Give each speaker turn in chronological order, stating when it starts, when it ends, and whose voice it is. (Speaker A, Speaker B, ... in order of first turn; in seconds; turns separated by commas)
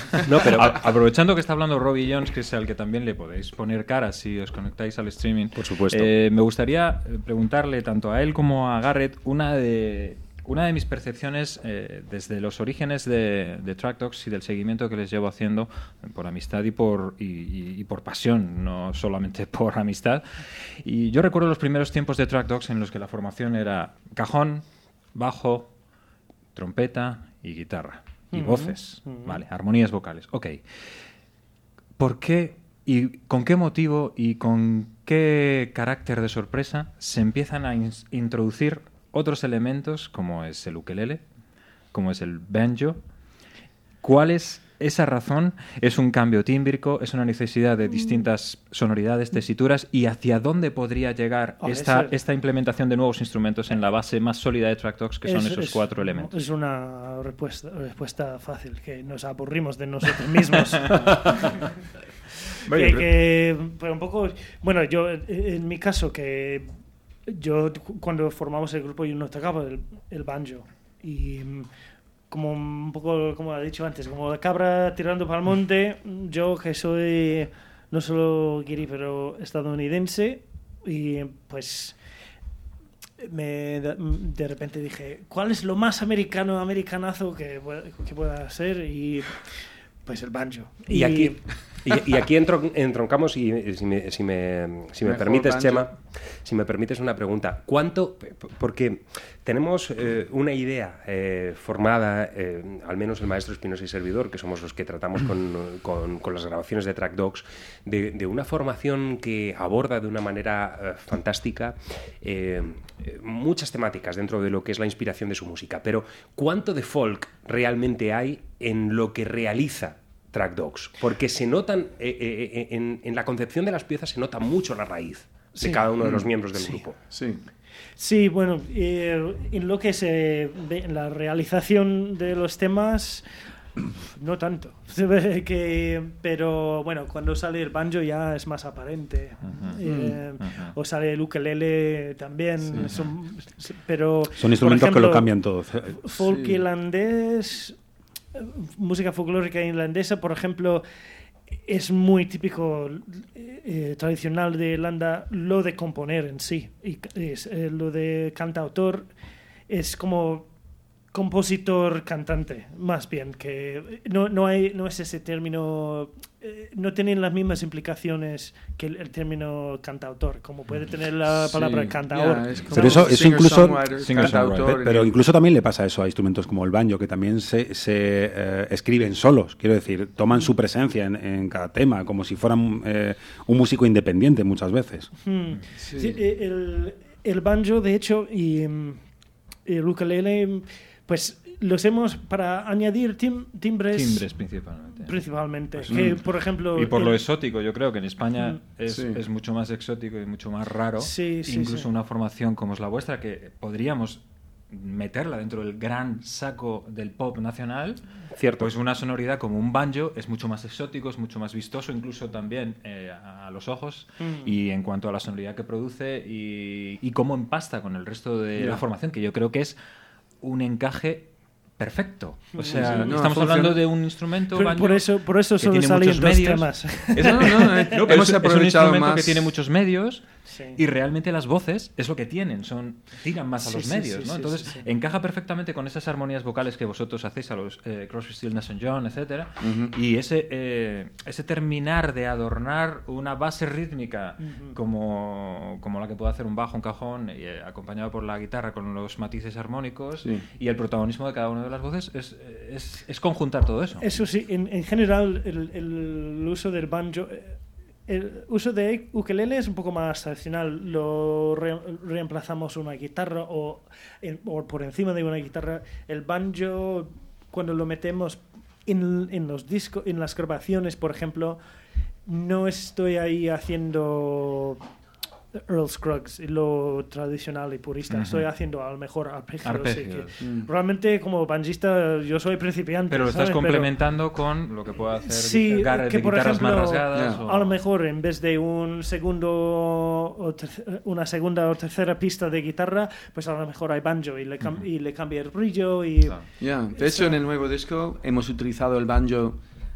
Speaker A: 0.2-0.8, Speaker B: 0.4-25.7, Speaker A: 5.5-6.1, Speaker B: 26.6-30.6, Speaker C: 28.3-29.4, Speaker B: 32.0-41.2, Speaker B: 41.9-43.0, Speaker B: 44.0-56.4, Speaker C: 51.6-52.2, Speaker C: 55.2-61.1, Speaker B: 60.1-61.6, Speaker B: 62.7-63.3, Speaker C: 62.7-66.7, Speaker C: 67.3-71.7, Speaker C: 72.3-82.0, Speaker C: 83.2-89.5, Speaker C: 90.1-91.4, Speaker A: 90.9-127.0, Speaker D: 95.0-95.9, Speaker C: 125.5-125.9, Speaker D: 126.0-126.3, Speaker D: 127.1-127.4, Speaker C: 128.0-133.2, Speaker C: 134.0-147.8, Speaker B: 139.4-139.9, Speaker D: 139.9-140.2, Speaker B: 140.4-140.7, Speaker D: 142.6-142.9, Speaker B: 142.8-143.1, Speaker E: 144.4-146.0, Speaker D: 146.2-146.7, Speaker C: 148.3-150.8, Speaker C: 151.6-159.1, Speaker C: 159.7-160.5, Speaker C: 161.1-172.8, Speaker B: 170.7-172.0, Speaker D: 171.6-175.2, Speaker B: 172.6-172.9, Speaker E: 172.7-185.1, Speaker B: 173.9-174.8, Speaker C: 185.2-189.0, Speaker D: 185.8-186.2, Speaker C: 189.7-194.4, Speaker B: 193.9-208.0, Speaker C: 195.0-197.3, Speaker D: 195.9-196.2, Speaker C: 198.3-198.6, Speaker D: 198.9-199.2, Speaker C: 201.0-201.9, Speaker A: 208.3-208.7, Speaker B: 208.6-219.8, Speaker C: 214.2-214.6, Speaker B: 220.4-254.1, Speaker C: 222.6-223.2, Speaker D: 222.6-223.8, Speaker C: 224.5-228.1, Speaker D: 227.2-229.5, Speaker C: 230.4-230.8, Speaker C: 233.6-234.9, Speaker D: 239.6-239.9, Speaker C: 244.4-244.8, Speaker D: 250.2-250.5, Speaker C: 254.0-271.6, Speaker C: 272.3-274.8, Speaker C: 275.7-284.0, Speaker B: 278.1-278.5, Speaker B: 279.6-280.3, Speaker D: 280.4-280.7, Speaker B: 283.1-287.9, Speaker C: 285.1-297.4, Speaker D: 287.1-287.4, Speaker B: 294.6-294.9, Speaker D: 296.6-299.6